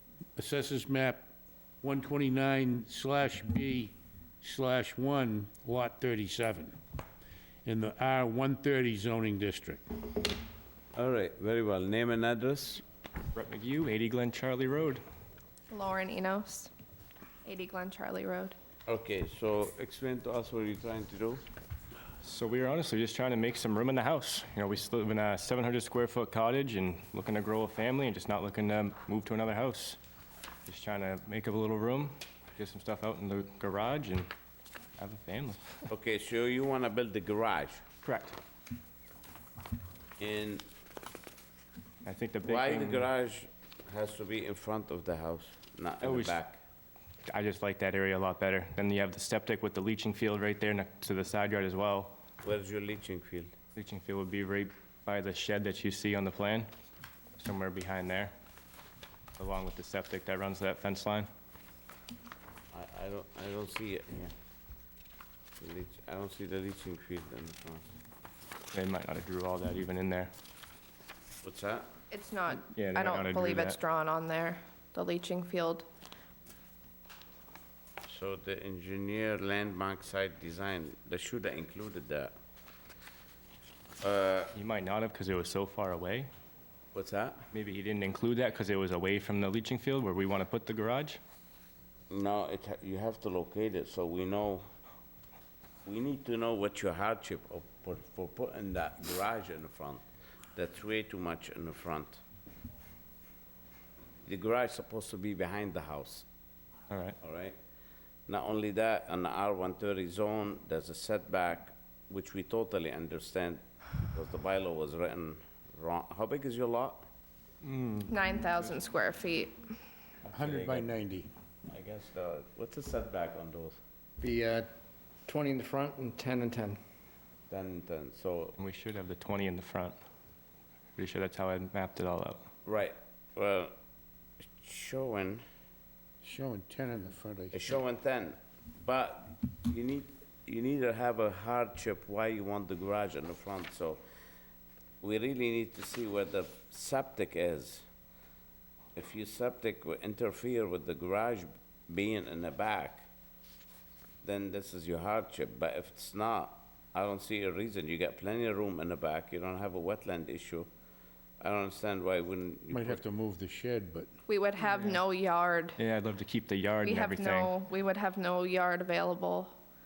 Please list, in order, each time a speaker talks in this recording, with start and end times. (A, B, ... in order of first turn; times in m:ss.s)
0:00.4-0:01.3 A
0:01.8-0:06.8 A
0:07.6-0:09.8 A
0:11.0-0:12.8 B
0:13.4-0:15.0 C
0:15.7-0:16.7 D
0:17.4-0:18.6 D
0:18.9-0:21.4 B
0:22.2-0:30.0 C
0:30.7-0:34.3 C
0:35.0-0:35.8 C
0:35.9-0:37.8 B
0:38.0-0:38.4 C
0:40.2-0:40.6 B
0:42.0-0:43.1 C
0:42.4-0:46.6 B
0:46.0-0:46.4 C
0:47.3-0:52.2 C
0:52.4-0:53.5 B
0:53.8-0:56.7 C
0:57.4-0:58.3 C
0:59.4-1:01.3 C
1:02.7-1:04.3 B
1:05.6-1:07.8 B
1:08.7-1:10.3 C
1:11.4-1:11.9 B
1:12.1-1:15.9 D
1:12.7-1:13.8 C
1:18.1-1:22.3 B
1:24.0-1:24.5 B
1:24.5-1:26.3 C
1:26.9-1:27.4 B
1:27.5-1:31.2 C
1:32.1-1:34.7 B
1:35.8-1:40.0 B
1:40.6-1:42.2 B
1:44.3-1:46.3 B
1:46.9-1:47.2 C
1:47.2-1:47.6 B
1:48.3-1:57.1 B
1:57.6-1:58.5 C
1:58.1-1:59.6 D
2:00.3-2:00.9 B
2:00.3-2:01.3 A
2:01.7-2:03.8 B
2:04.2-2:04.7 E
2:05.3-2:06.8 E
2:07.5-2:08.6 B
2:08.6-2:10.0 C
2:11.0-2:12.4 C
2:12.6-2:13.7 B
2:14.5-2:15.4 B
2:16.2-2:17.7 A
2:17.5-2:24.0 B
2:25.0-2:27.9 B
2:29.0-2:33.1 B
2:34.2-2:40.7 B
2:41.4-2:43.0 B
2:42.7-2:44.1 A
2:44.3-2:45.8 D
2:44.8-2:45.0 C
2:45.8-2:47.5 C
2:46.8-2:49.5 D